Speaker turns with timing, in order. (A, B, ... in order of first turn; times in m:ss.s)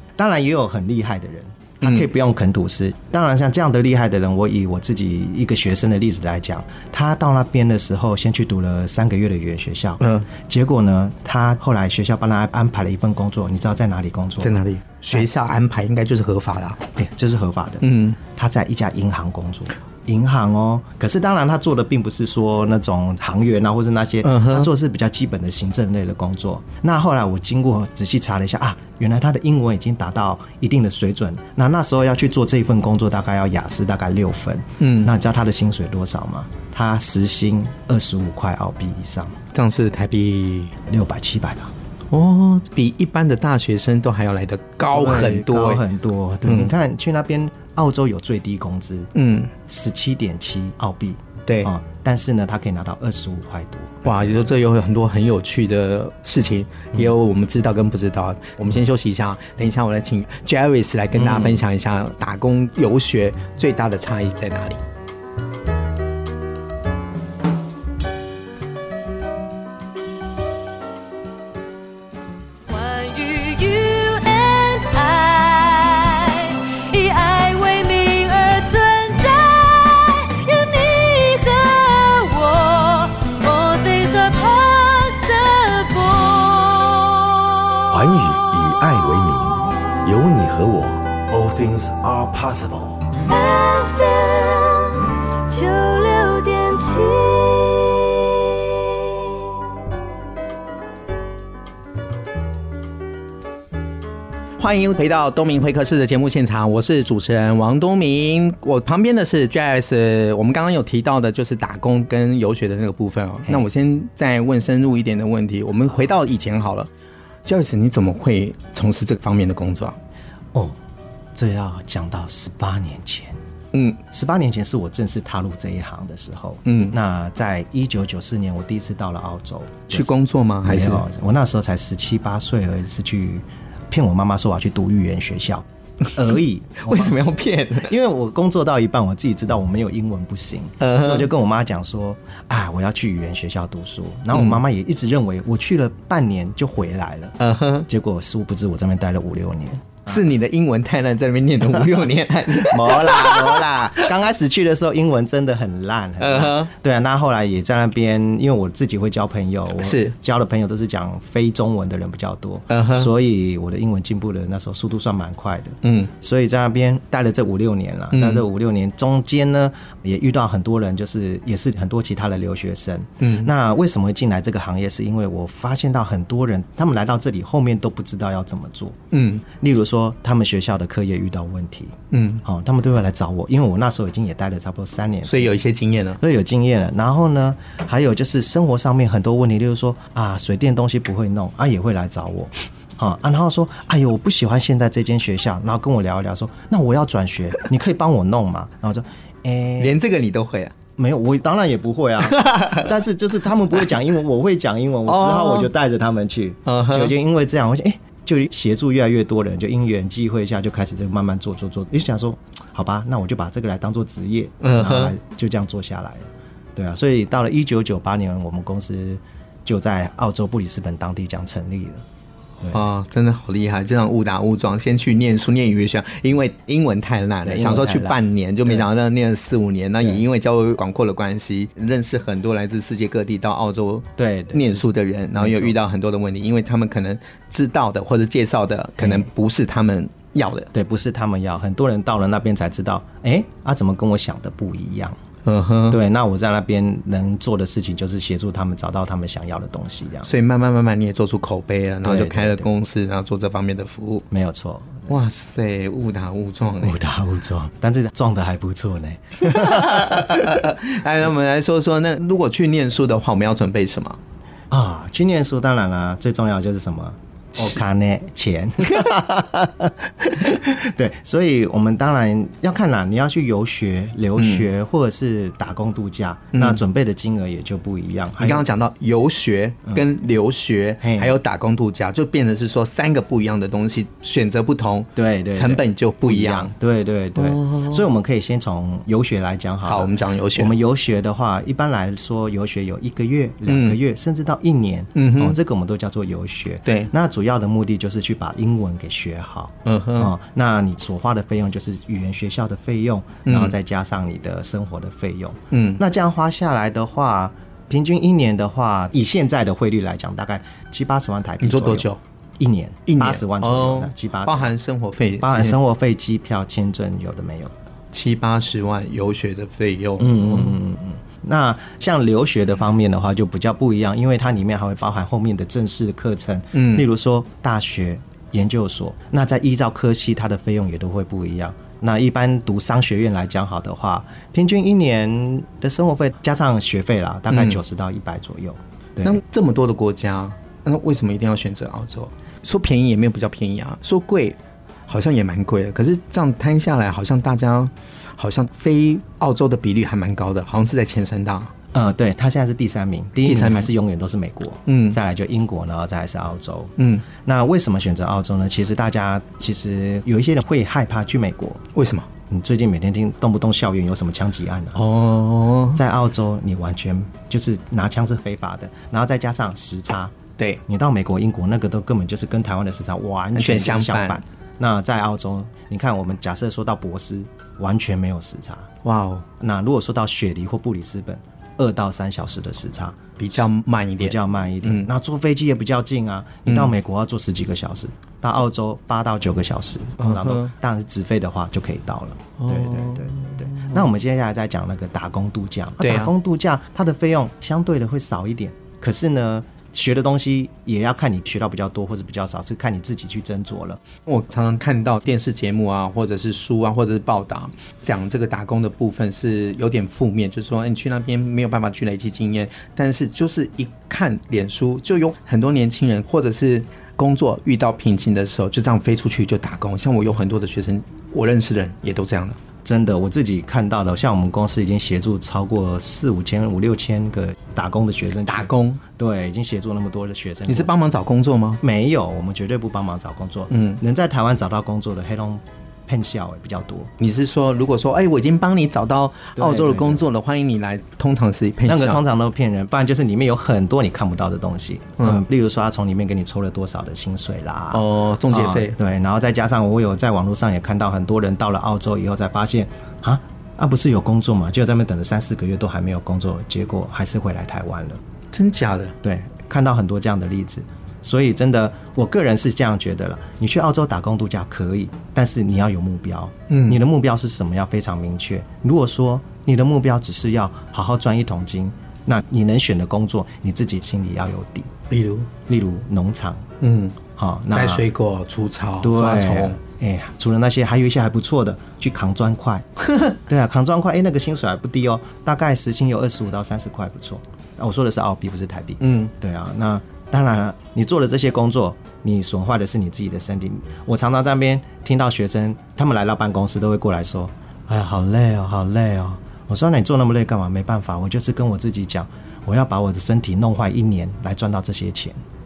0:00.2-0:14.6 A
0:01.8-0:02.1 B
0:10.0-0:10.3 B
0:14.4-0:16.8 B
0:17.0-0:39.4 A
0:17.8-0:18.2 B
0:24.2-0:24.7 B
0:34.8-0:35.1 B
0:39.5-0:40.7 B
0:40.9-0:41.7 A
0:42.1-0:45.8 B
0:44.9-0:49.1 A
0:46.4-0:46.7 B
0:49.1-0:49.5 B
0:49.7-0:54.4 A
0:51.5-0:51.7 B
0:54.0-1:04.8 B
1:01.1-1:01.6 A
1:12.7-1:27.2 C
1:27.9-1:33.1 D
1:33.3-1:39.2 C
1:44.6-1:56.9 B
1:57.4-2:00.0 B
2:01.4-2:03.4 A
2:03.7-2:04.0 B
2:04.1-2:10.1 A
2:06.6-2:07.0 B
2:09.9-2:11.0 B
2:10.6-2:17.2 A
2:16.8-2:17.9 B
2:17.8-2:27.4 A
2:20.8-2:21.3 B
2:24.3-2:24.6 B
2:27.4-2:27.9 B
2:27.9-2:30.2 A
2:30.1-2:34.1 B
2:32.7-3:05.6 A
2:36.2-2:36.7 B
2:39.8-2:40.1 B
2:42.7-2:43.1 B
2:45.8-2:46.1 B
2:48.1-2:48.4 B
2:53.2-2:53.5 B
2:59.1-2:59.4 B
3:02.1-3:02.4 B
3:05.2-3:06.2 B
3:06.2-3:20.0 A
3:19.8-3:20.7 B
3:21.0-3:42.0 A
3:22.2-3:22.9 B
3:25.1-3:25.7 B
3:26.7-3:27.2 B
3:34.6-3:35.2 B
3:42.7-4:00.7 B
3:47.4-3:48.9 A
3:54.2-3:55.8 A
3:59.0-3:59.3 A
4:00.7-4:05.2 A
4:05.5-4:06.0 B
4:05.9-4:10.4 A
4:10.2-4:14.2 B
4:12.0-4:12.7 A
4:14.3-4:15.2 A
4:15.1-4:17.0 B
4:16.8-4:20.6 A
4:19.4-4:24.2 B
4:24.7-4:38.7 A
4:34.4-4:34.7 B
4:36.5-4:36.8 B
4:38.4-4:46.7 B
4:41.0-4:41.4 A
4:45.2-5:12.1 A
4:47.4-4:48.0 B
4:49.9-4:50.8 B
4:53.7-4:54.0 B
4:55.2-4:55.6 B
4:56.9-4:57.1 B
4:59.8-5:00.3 B
5:03.4-5:03.8 B
5:05.7-5:06.0 B
5:11.6-5:12.2 B
5:12.6-5:14.8 A
5:13.1-5:15.8 B
5:15.4-5:17.8 A
5:18.1-5:20.8 B
5:20.2-5:39.4 A
5:26.7-5:27.1 B
5:37.5-5:37.8 B
5:39.2-5:51.7 B
5:51.9-6:01.8 A
5:53.5-5:53.9 B
5:54.9-5:55.2 B
5:57.0-5:57.2 B
6:02.0-6:02.3 B
6:02.5-6:05.0 A
6:05.0-6:06.0 B
6:05.9-6:18.9 A
6:13.6-6:14.4 B
6:19.0-6:19.4 B
6:19.6-6:23.2 A
6:23.4-6:25.1 B
6:24.2-6:44.0 A
6:26.7-6:26.9 B
6:30.2-6:30.7 B
6:32.6-6:34.0 B
6:36.0-6:36.3 B
6:44.3-7:02.6 B
7:02.8-7:10.9 A
7:08.5-7:09.0 B
7:10.7-7:11.8 B
7:11.8-7:17.1 A
7:13.7-7:14.0 B
7:17.2-7:22.2 B
7:19.6-7:20.3 A
7:21.9-7:38.2 A
7:27.9-7:29.0 B
7:38.5-7:39.1 B
7:39.2-7:54.9 A
7:46.7-7:47.0 B
7:55.1-7:55.5 B
7:55.7-7:56.6 A
7:56.8-7:57.2 B
7:57.4-7:58.1 A
7:57.7-7:59.8 B
7:59.0-8:02.9 A
8:03.1-8:03.4 B
8:03.4-8:25.4 A
8:09.0-8:09.3 B